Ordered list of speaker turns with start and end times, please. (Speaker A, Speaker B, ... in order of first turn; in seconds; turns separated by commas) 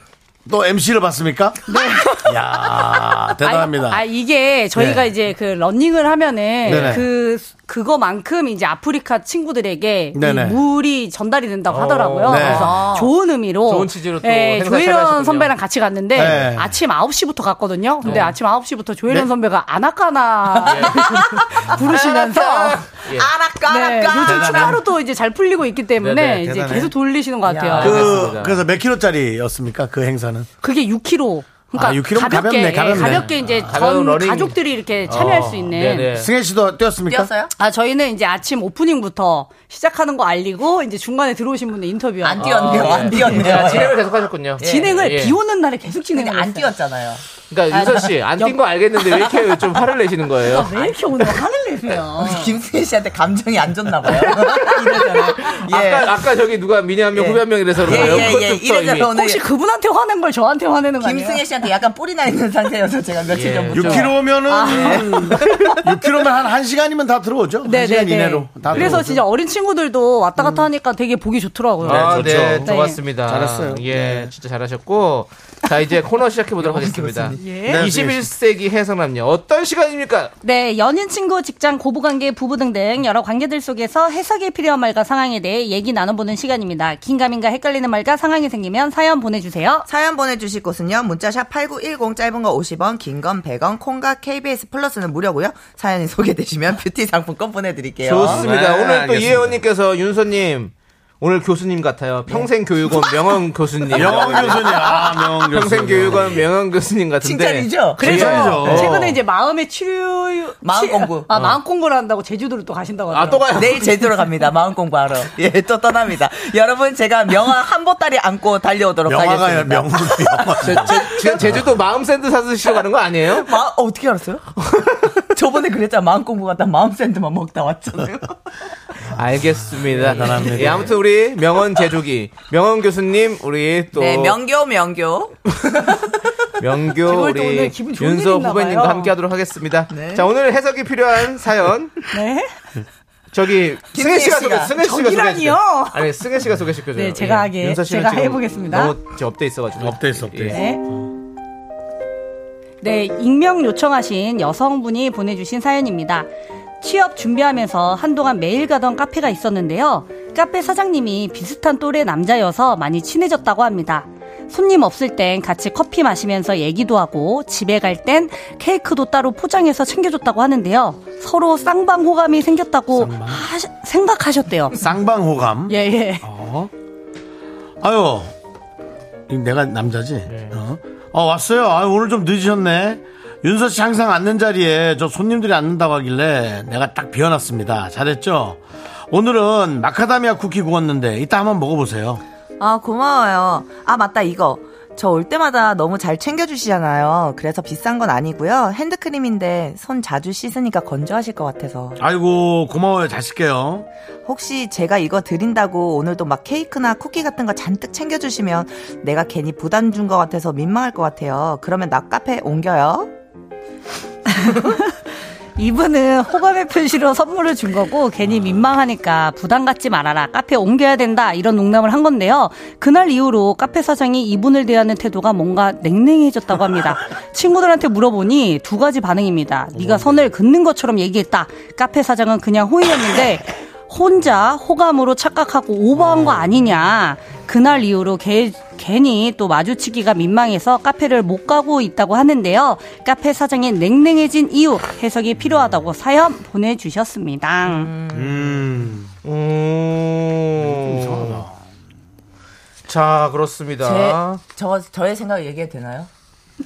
Speaker A: 0.5-4.0, Speaker B: 1.7-23.0, Speaker A: 4.7-5.1, Speaker C: 6.7-7.0, Speaker A: 6.7-7.1, Speaker A: 10.1-10.6, Speaker C: 11.7-13.1, Speaker A: 12.3-12.8, Speaker C: 13.6-15.6, Speaker A: 16.1-16.8, Speaker C: 16.2-16.5, Speaker C: 18.0-18.4, Speaker C: 20.6-23.3, Speaker D: 20.7-21.7, Speaker D: 23.2-24.8, Speaker B: 23.6-28.0, Speaker A: 24.2-24.8, Speaker C: 26.0-26.8, Speaker D: 27.4-28.3, Speaker C: 27.7-28.6, Speaker A: 27.8-30.5, Speaker B: 30.6-36.1, Speaker A: 31.7-33.3, Speaker C: 32.9-36.3, Speaker A: 36.1-37.3, Speaker D: 37.1-37.5, Speaker B: 37.6-43.6, Speaker D: 42.2-44.0, Speaker C: 42.4-45.4, Speaker D: 44.6-45.1, Speaker B: 44.6-46.7, Speaker D: 46.1-47.2, Speaker C: 47.5-50.8, Speaker D: 47.8-48.1, Speaker B: 50.4-52.6, Speaker D: 52.2-56.2, Speaker B: 54.1-55.5, Speaker C: 55.0-59.1, Speaker D: 57.1-59.4, Speaker B: 57.9-58.4, Speaker B: 59.1-61.5, Speaker D: 61.0-65.6, Speaker C: 63.3-64.1, Speaker A: 63.7-69.2, Speaker B: 64.4-65.5, Speaker B: 67.6-73.0, Speaker C: 68.7-69.0, Speaker C: 71.8-80.3, Speaker A: 71.8-72.7, Speaker A: 73.2-74.3, Speaker D: 76.6-77.6, Speaker B: 77.4-77.8, Speaker A: 77.6-78.3, Speaker B: 80.4-89.9, Speaker D: 89.9-98.4, Speaker C: 98.0-109.0, Speaker A: 98.2-99.6, Speaker D: 102.3-103.4, Speaker A: 103.9-106.5, Speaker D: 103.9-105.0, Speaker D: 107.2-108.0, Speaker B: 108.0-114.2, Speaker A: 108.0-109.2, Speaker D: 110.6-111.3, Speaker C: 111.3-111.6, Speaker C: 113.1-113.9, Speaker D: 113.5-121.4, Speaker A: 119.1-121.7, Speaker C: 120.6-123.5, Speaker D: 123.3-124.4, Speaker C: 124.6-125.2, Speaker D: 125.3-128.4, Speaker C: 129.1-134.3, Speaker A: 129.6-130.9, Speaker D: 130.1-130.5, Speaker D: 133.9-135.6, Speaker C: 136.6-142.1, Speaker B: 137.0-139.1, Speaker D: 139.9-140.3, Speaker B: 142.1-142.5, Speaker C: 143.3-150.6, Speaker D: 143.9-144.7, Speaker B: 144.8-146.2, Speaker B: 146.9-149.0, Speaker A: 149.8-151.1, Speaker B: 150.5-150.8, Speaker B: 152.8-156.3, Speaker B: 156.8-174.8, Speaker A: 173.0-173.4, Speaker A: 174.8-176.7, Speaker B: 175.7-176.2, Speaker A: 177.8-178.3, Speaker A: 179.3-192.2, Speaker C: 180.3-180.6, Speaker D: 192.6-202.0, Speaker A: 202.0-203.9, Speaker D: 204.3-213.1, Speaker B: 214.3-215.0, Speaker B: 215.6-247.9, Speaker A: 229.8-230.1, Speaker D: 247.6-248.6, Speaker A: 248.1-249.1, Speaker C: 249.2-251.5, Speaker A: 250.6-251.6, Speaker C: 252.9-254.4, Speaker D: 253.8-256.1